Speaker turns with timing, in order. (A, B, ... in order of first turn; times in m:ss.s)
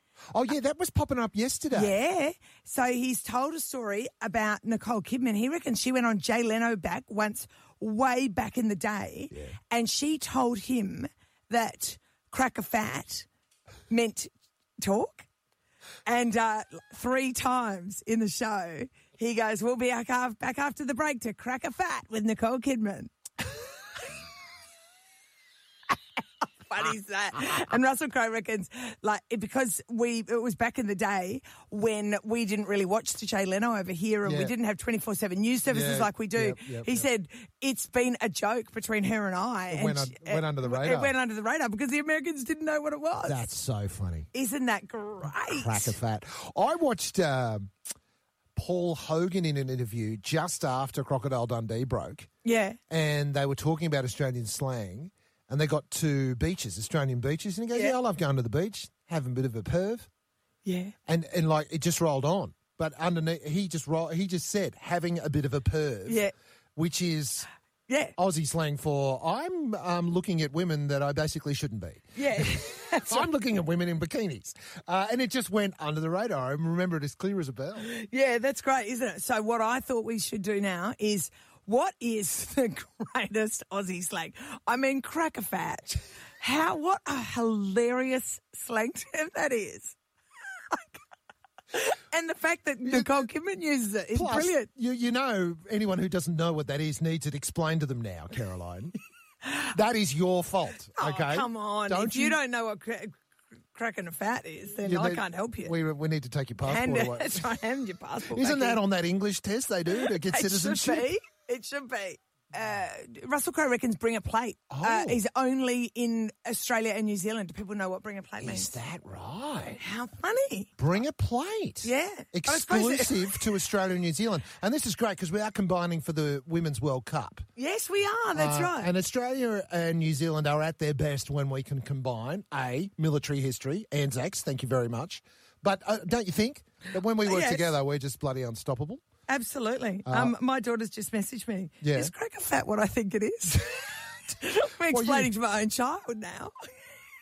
0:00.3-0:01.9 A
0:01.7-0:13.3 B
0:13.9-0:15.3 B
0:16.0-0:23.1 B
0:26.7-0:43.4 B
0:34.2-0:34.5 A
0:35.7-0:37.1 A
0:39.7-0:41.1 A
0:43.2-0:44.3 A
0:44.3-0:46.0 B
0:45.5-0:47.7 A
0:48.6-0:52.3 A
0:52.4-0:52.8 B
0:52.9-1:00.1 A
1:00.6-1:00.9 B
1:01.1-1:06.2 A
1:06.1-1:06.3 B
1:06.8-1:07.5 A
1:07.9-1:08.1 B
1:08.2-1:17.9 A
1:12.2-1:13.3 B
1:17.8-1:30.0 B
1:30.7-1:31.0 B
1:31.7-1:34.7 B
1:32.8-1:33.3 A
1:34.1-1:38.9 A
1:39.7-1:42.4 A
1:41.0-1:43.2 B
1:43.7-1:45.7 B
1:44.8-1:47.5 A
1:46.6-1:48.8 B
1:48.3-1:51.1 A
1:50.0-1:58.7 B
1:54.7-1:55.2 A
1:58.4-1:59.8 A
1:59.8-2:00.7 B
2:00.8-2:07.4 A
2:01.8-2:03.4 B
2:07.6-2:08.9 B
2:08.3-2:19.0 A
2:17.2-2:17.7 B
2:19.3-2:26.5 B
2:20.0-2:20.3 A
2:21.8-2:22.1 A
2:24.9-2:25.3 A